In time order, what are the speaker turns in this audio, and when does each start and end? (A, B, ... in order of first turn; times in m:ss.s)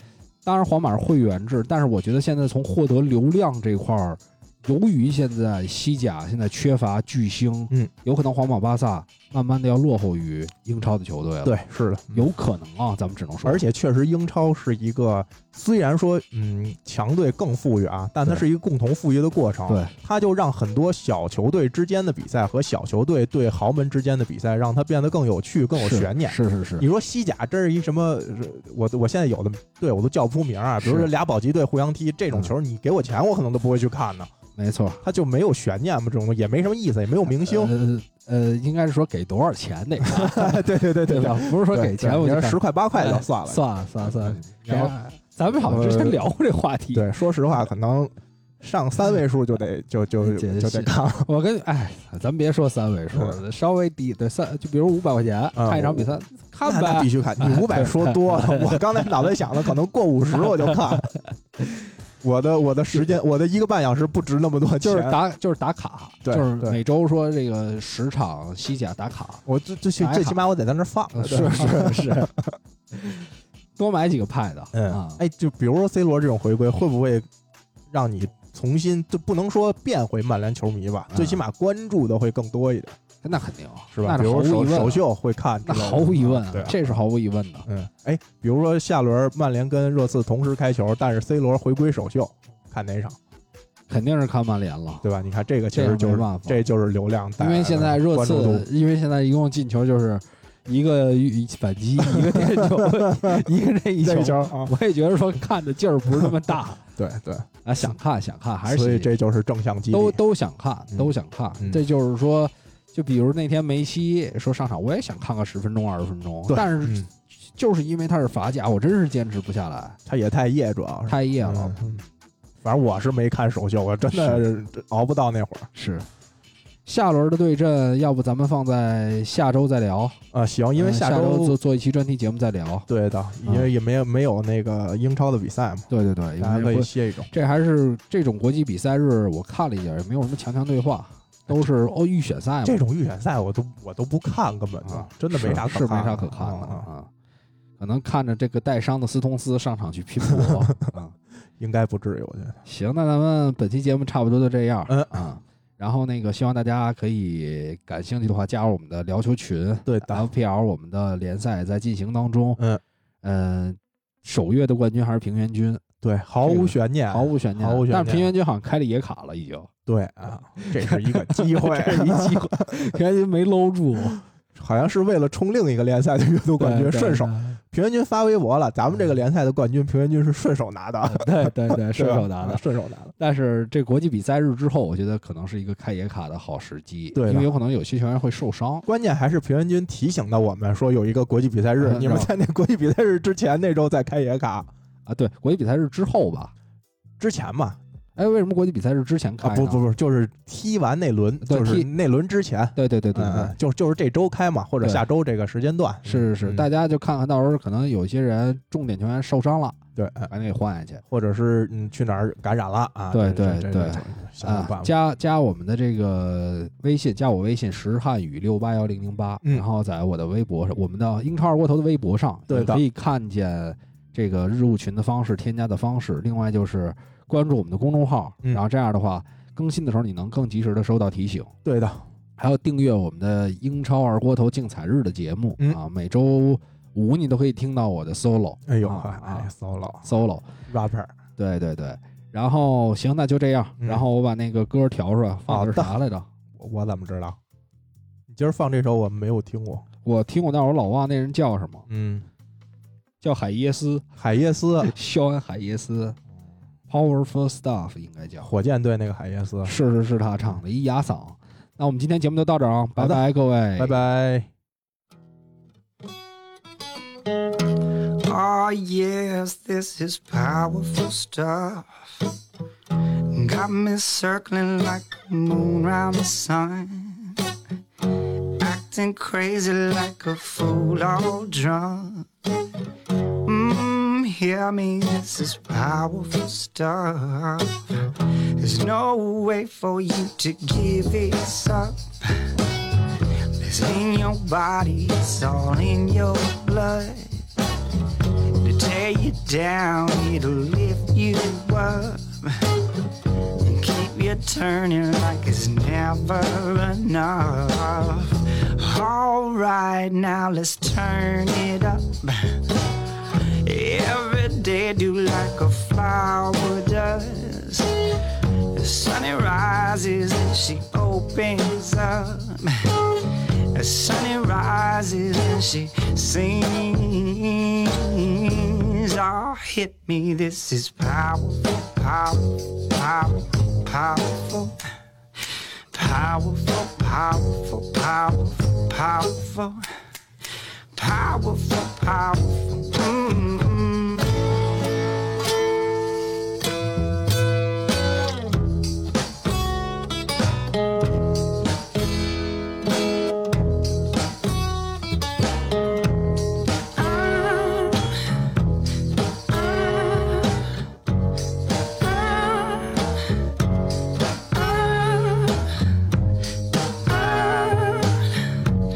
0:00.4-0:11.6 A
0:11.4-0:12.3 B
0:12.1-0:13.6 A
0:13.4-0:34.3 B
0:19.7-0:19.9 A
0:25.8-0:26.8 A
0:30.8-0:31.1 A
0:34.6-0:35.0 A
0:35.0-0:37.7 B
0:37.3-0:47.1 A
0:40.1-0:45.0 B
0:45.6-0:46.2 B
0:46.9-0:51.3 B
0:50.2-0:59.3 A
0:55.6-0:56.1 B
0:56.6-1:01.1 B
1:00.6-1:01.0 A
1:02.2-1:05.2 B
1:04.8-1:09.4 A
1:06.2-1:06.8 B
1:09.5-1:12.6 B
1:10.0-1:10.4 A
1:11.1-1:12.3 A
1:12.9-1:15.2 A
1:14.7-1:17.3 B
1:17.9-1:23.0 B
1:21.1-1:21.4 A
1:23.2-1:25.1 A
1:23.9-1:27.0 B
1:25.6-1:27.7 A
1:27.7-1:33.2 B
1:33.9-1:35.1 A
1:35.0-1:38.7 B
1:35.7-1:36.6 A
1:37.4-1:46.8 A
1:42.0-1:43.5 B
1:44.0-1:44.7 B
1:47.0-1:47.5 B
1:47.6-1:49.1 A
1:48.7-1:50.2 B
1:49.9-2:00.0 A
1:50.9-1:51.8 B
1:56.5-1:57.1 B
2:00.1-2:02.0 B
2:01.1-2:02.0 A
2:02.6-2:05.7 B
2:04.1-2:04.4 A
2:05.7-2:06.1 A
2:06.9-2:10.2 A
2:10.3-2:11.6 B
2:10.8-2:12.9 A
2:12.9-2:15.9 B
2:15.9-2:22.8 A
2:16.4-2:17.3 B
2:22.6-2:26.9 B
2:24.8-2:27.1 A
2:27.8-2:31.2 A
2:30.3-2:30.9 B
2:31.6-2:32.6 B
2:32.6-2:42.6 A
2:34.9-2:35.3 B
2:39.9-2:40.3 B
2:43.2-2:45.8 A
2:46.0-2:48.3 B
2:46.4-2:49.7 A
2:49.9-2:52.6 B
2:50.6-2:54.2 A
2:54.6-3:03.1 B
2:56.6-2:57.6 A
3:01.0-3:02.6 A
3:03.2-3:08.9 A
3:07.2-3:07.5 B
3:08.9-3:14.7 B
3:11.8-3:12.3 A
3:15.1-3:16.5 A
3:17.2-3:17.8 B
3:18.2-3:19.8 A
3:19.4-3:26.7 B
3:21.4-3:21.9 A
3:22.8-3:23.6 A
3:26.0-3:31.0 A
3:30.0-3:30.3 B
3:31.1-3:34.9 B
3:33.1-3:51.5 A
3:42.5-3:42.8 B
3:51.6-3:52.0 B
3:52.4-3:59.5 A
3:58.7-4:00.1 B
4:00.0-4:00.5 A
4:00.7-4:01.1 B
4:01.4-4:06.3 A
4:05.5-4:06.0 B
4:06.5-4:07.4 B
4:08.3-4:09.8 B
4:10.0-4:11.9 A
4:11.9-4:12.3 B
4:13.2-4:14.1 A
4:14.2-4:14.9 B
4:14.8-4:16.2 A
4:16.9-4:18.5 A
4:18.4-4:19.8 B
4:19.6-4:24.0 A
4:23.0-4:24.5 B
4:27.7-4:32.3 C
4:32.9-4:37.4 C
4:38.0-4:42.3 C
4:43.1-4:57.5 C
4:58.2-5:34.8 C
5:35.4-5:39.9 C
5:40.9-5:44.5 C
5:57.0-5:58.3 C
5:59.5-6:00.7 C
6:02.0-6:03.3 C
6:04.5-6:06.0 C
6:07.0-6:08.8 C